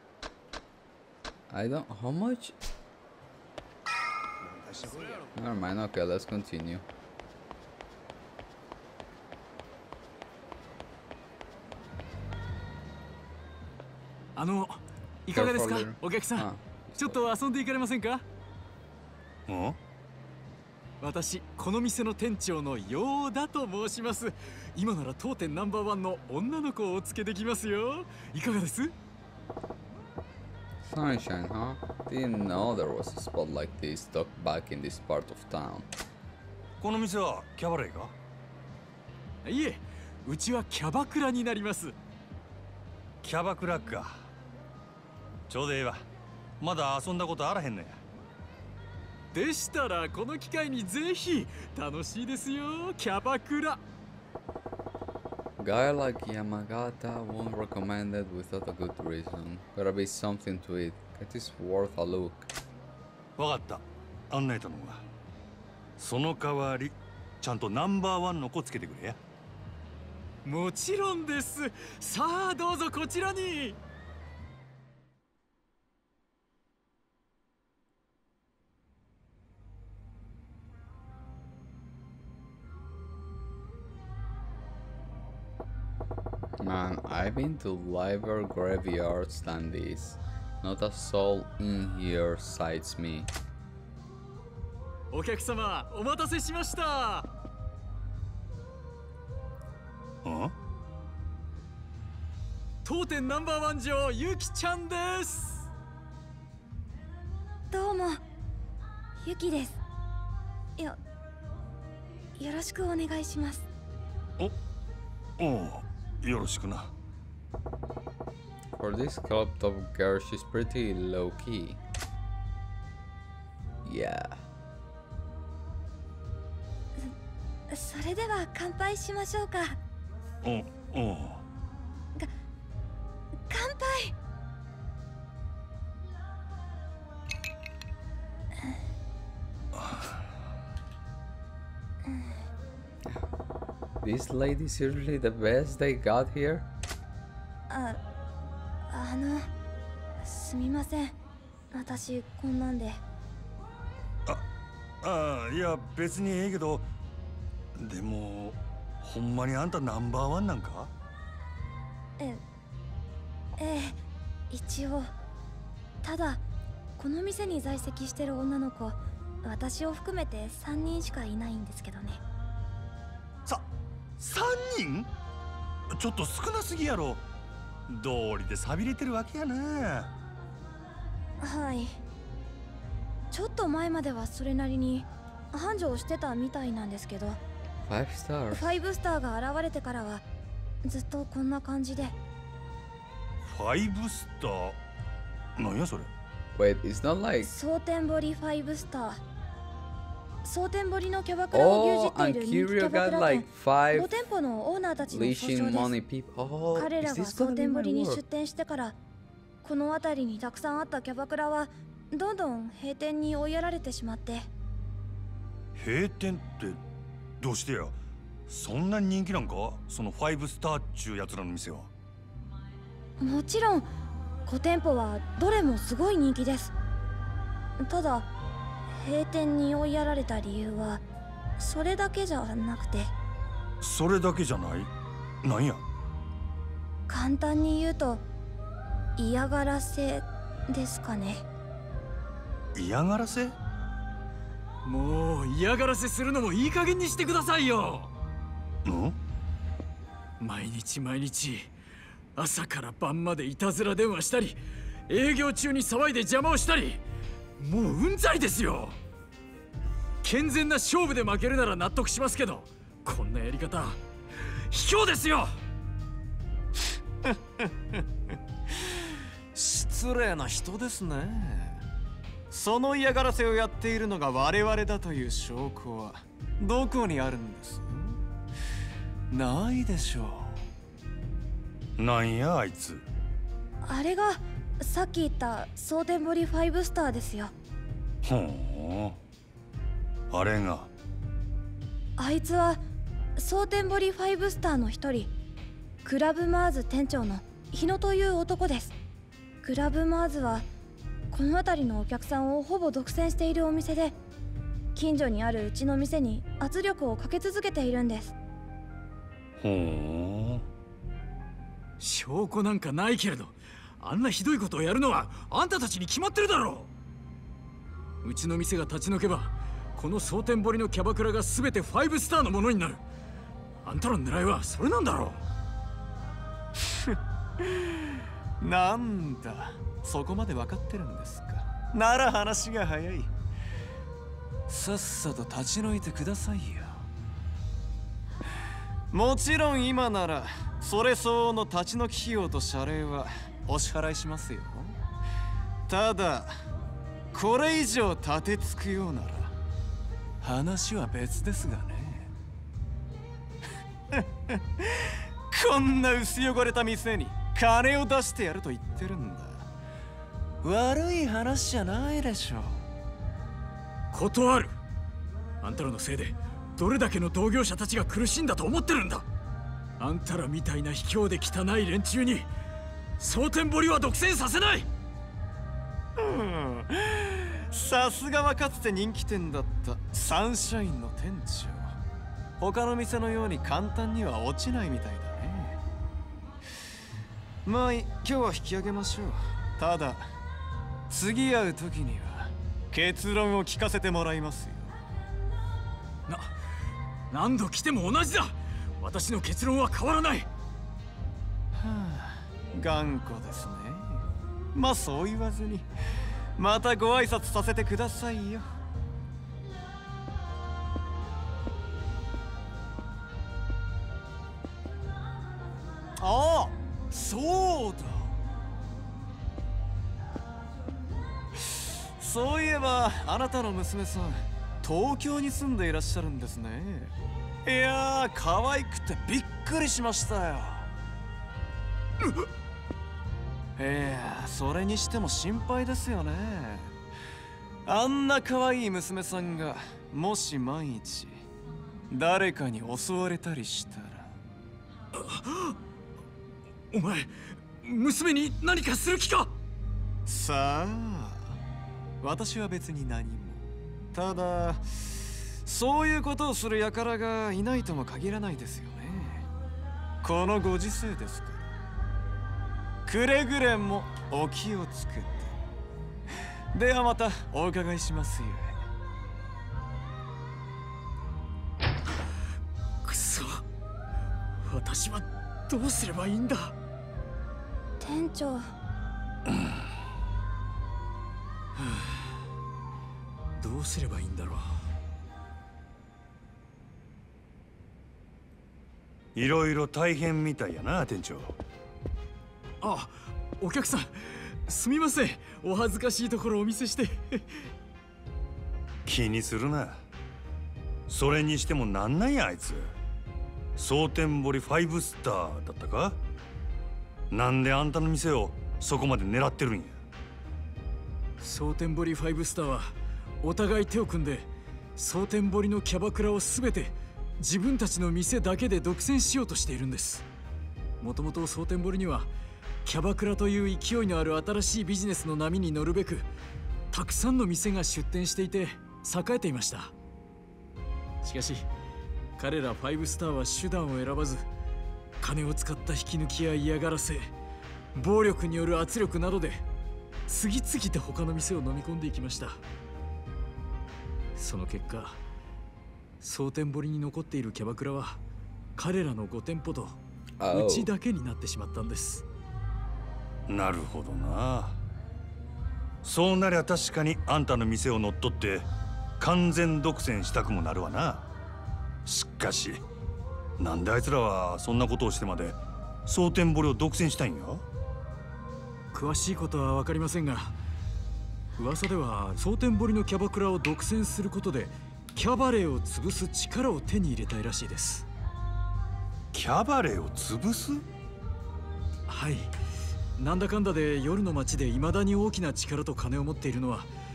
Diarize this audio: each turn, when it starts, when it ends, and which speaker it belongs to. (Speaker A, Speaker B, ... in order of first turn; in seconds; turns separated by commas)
Speaker A: 1.5-2.5, Speaker B: 4.6-5.2, Speaker A: 5.4-6.8, Speaker C: 14.4-18.2, Speaker A: 15.3-17.2, Speaker B: 19.5-19.8, Speaker C: 21.0-28.9, Speaker A: 30.9-35.9, Speaker B: 36.8-38.1, Speaker C: 39.4-42.0, Speaker B: 43.2-44.2, Speaker B: 45.5-46.0, Speaker B: 46.6-48.0, Speaker C: 49.3-53.8, Speaker A: 55.6-62.5, Speaker B: 63.4-65.0, Speaker B: 66.0-69.2, Speaker C: 70.5-73.8, Speaker A: 86.6-93.3, Speaker C: 95.1-97.3, Speaker B: 100.2-100.5, Speaker C: 102.8-105.7, Speaker D: 107.7-108.2, Speaker D: 109.2-109.8, Speaker D: 112.4-113.7, Speaker B: 115.4-116.9, Speaker A: 118.8-121.8, Speaker A: 123.8-124.4, Speaker D: 127.7-129.8, Speaker B: 130.4-131.4, Speaker D: 133.5-134.2, Speaker B: 139.8-140.1, Speaker D: 142.1-142.4, Speaker A: 144.0-146.7, Speaker D: 147.7-148.0, Speaker D: 148.9-149.5, Speaker D: 150.2-151.2, Speaker D: 151.7-153.0, Speaker B: 155.0-156.9, Speaker B: 157.8-160.9, Speaker D: 162.2-162.4, Speaker D: 163.6-164.0, Speaker D: 164.5-165.1, Speaker D: 166.0-166.4, Speaker D: 167.0-172.2, Speaker B: 174.2-175.1, Speaker B: 175.9-177.2, Speaker B: 177.9-180.1, Speaker D: 181.4-182.0, Speaker D: 183.3-187.4, Speaker A: 187.9-188.7, Speaker D: 188.5-190.2, Speaker D: 190.8-192.2, Speaker B: 193.4-194.8, Speaker B: 195.6-196.1, Speaker A: 196.6-197.5, Speaker D: 197.4-199.2, Speaker D: 200.4-205.9, Speaker A: 201.5-204.1, Speaker A: 205.1-208.2, Speaker D: 206.8-209.0, Speaker D: 209.6-214.5, Speaker B: 215.8-216.8, Speaker B: 217.4-217.9, Speaker B: 218.5-221.9, Speaker D: 223.2-223.9, Speaker D: 224.4-226.7, Speaker D: 227.8-228.3, Speaker D: 228.9-231.0, Speaker D: 231.6-233.1, Speaker B: 233.8-234.9, Speaker B: 235.4-235.8, Speaker D: 237.1-238.2, Speaker D: 239.2-241.4, Speaker B: 242.8-243.6, Speaker C: 244.8-248.1, Speaker B: 248.8-249.2, Speaker C: 250.4-251.7, Speaker C: 252.4-257.0, Speaker C: 257.6-259.0, Speaker C: 260.2-265.6, Speaker E: 267.2-268.1, Speaker E: 268.7-271.8, Speaker E: 272.5-278.2, Speaker E: 279.3-280.6, Speaker B: 282.0-283.1, Speaker D: 283.8-287.5, Speaker B: 288.2-289.2, Speaker B: 290.3-290.9, Speaker D: 292.2-292.8, Speaker D: 293.4-295.3, Speaker D: 296.0-298.9, Speaker D: 299.6-300.7, Speaker D: 301.3-304.2, Speaker D: 304.9-308.3, Speaker B: 309.6-310.7, Speaker C: 312.0-316.9, Speaker C: 318.2-323.0, Speaker C: 323.8-325.4, Speaker E: 326.8-333.3, Speaker E: 334.7-337.1, Speaker E: 339.1-345.0, Speaker E: 345.9-346.6, Speaker E: 347.3-349.6, Speaker E: 350.4-352.3, Speaker E: 354.1-359.7, Speaker E: 360.6-362.9, Speaker C: 364.1-364.8, Speaker C: 365.6-369.3, Speaker C: 370.0-372.5, Speaker C: 373.2-374.9, Speaker E: 376.2-382.0, Speaker E: 382.6-385.8, Speaker E: 387.6-390.3, Speaker E: 391.1-395.0, Speaker C: 396.3-396.6, Speaker C: 397.3-400.5, Speaker E: 401.7-405.9, Speaker E: 406.6-408.8, Speaker E: 416.2-418.4, Speaker E: 421.5-427.1, Speaker E: 427.6-430.9, Speaker E: 433.8-437.0, Speaker E: 437.9-441.4, Speaker E: 442.1-444.4, Speaker C: 445.1-445.8, Speaker C: 446.9-449.6, Speaker E: 450.3-451.6, Speaker E: 452.2-459.5, Speaker E: 460.2-461.7, Speaker E: 463.1-465.6, Speaker E: 466.7-468.9, Speaker C: 473.0-473.6, Speaker C: 474.6-476.8, Speaker D: 478.0-478.7, Speaker C: 481.8-482.4, Speaker C: 483.6-484.9, Speaker B: 489.4-491.6, Speaker C: 492.8-497.7, Speaker B: 499.1-500.0, Speaker B: 501.1-502.9, Speaker B: 503.8-506.2, Speaker B: 507.3-510.0, Speaker C: 511.4-520.3, Speaker C: 521.0-522.3, Speaker C: 522.9-526.3, Speaker C: 526.9-529.9, Speaker C: 531.2-531.7, Speaker C: 532.4-534.5, Speaker C: 535.2-537.3, Speaker C: 537.9-539.6, Speaker C: 540.3-542.6, Speaker C: 544.4-545.2, Speaker C: 546.2-548.2, Speaker C: 548.8-550.0, Speaker A: 550.4-550.9, Speaker C: 550.5-552.2, Speaker B: 553.5-554.8, Speaker B: 556.0-558.7, Speaker B: 559.2-561.3, Speaker B: 562.1-562.8, Speaker B: 563.6-567.7, Speaker C: 568.9-570.6, Speaker C: 571.6-578.1, Speaker B: 579.3-580.9, Speaker C: 582.1-582.5, Speaker C: 583.2-586.9